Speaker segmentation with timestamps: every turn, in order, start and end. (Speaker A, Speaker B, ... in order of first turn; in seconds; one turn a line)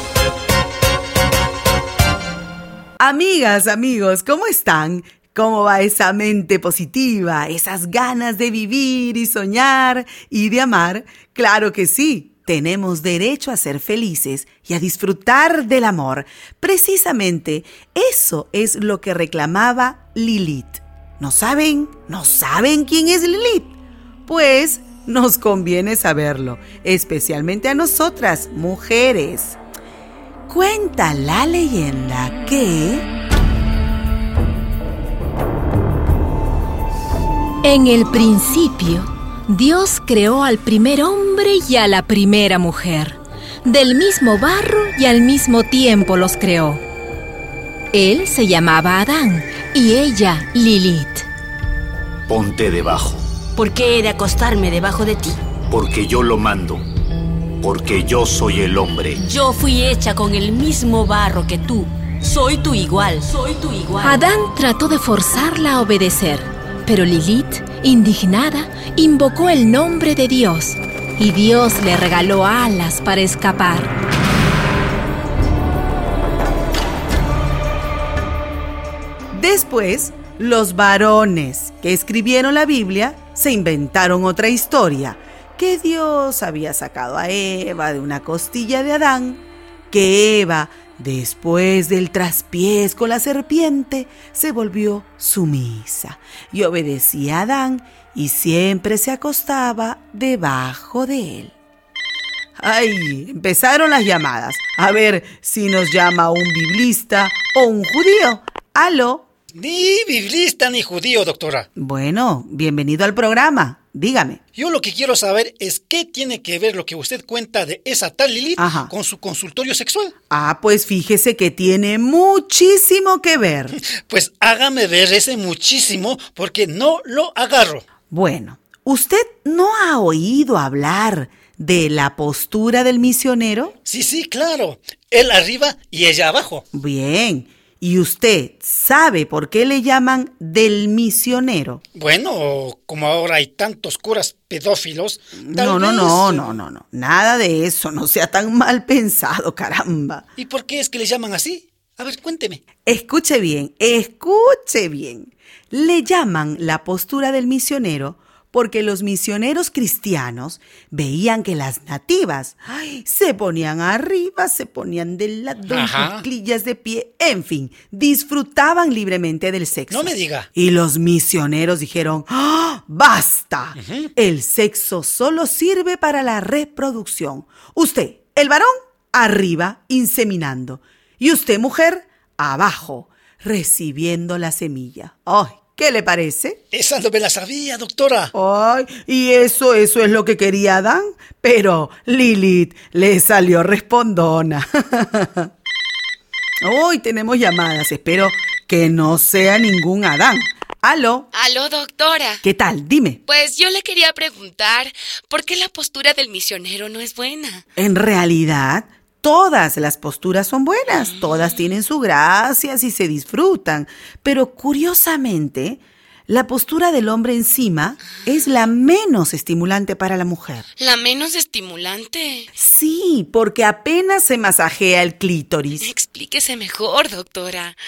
Speaker A: 3.0-23.7
Speaker A: 24.3-29.6
Speaker A: 30.5-33.1
Speaker B: 37.6-46.8
Speaker B: 47.9-51.3
Speaker C: 52.3-53.2
Speaker D: 53.6-55.4
Speaker C: 55.7-56.8
Speaker C: 57.6-59.2
Speaker D: 59.2-64.2
Speaker B: 64.0-73.9
Speaker A: 79.3-101.5
Speaker A: 102.6-109.3
Speaker E: 109.5-111.7
Speaker A: 111.8-114.4
Speaker E: 114.6-120.1
Speaker A: 118.6-118.9
Speaker A: 120.3-123.8
Speaker E: 124.1-127.8
Speaker A: 128.1-133.7
Speaker E: 133.9-136.6
Speaker A: 136.7-141.8
Speaker E: 141.9-146.5
Speaker A: 145.4-150.2
Speaker E: 150.4-152.6
Speaker A: 152.8-186.6
Speaker E: 165.7-166.2
Speaker E: 169.9-170.5
Speaker E: 173.8-174.1
Speaker E: 186.7-188.3
Speaker A: 188.3-195.5
Speaker A: 196.6-201.3
Speaker F: 201.3-202.4
Speaker A: 202.4-203.2
Speaker F: 203.3-207.7
Speaker A: 207.8-220.7
Speaker F: 220.8-222.5
Speaker A: 222.6-225.9
Speaker F: 225.8-227.8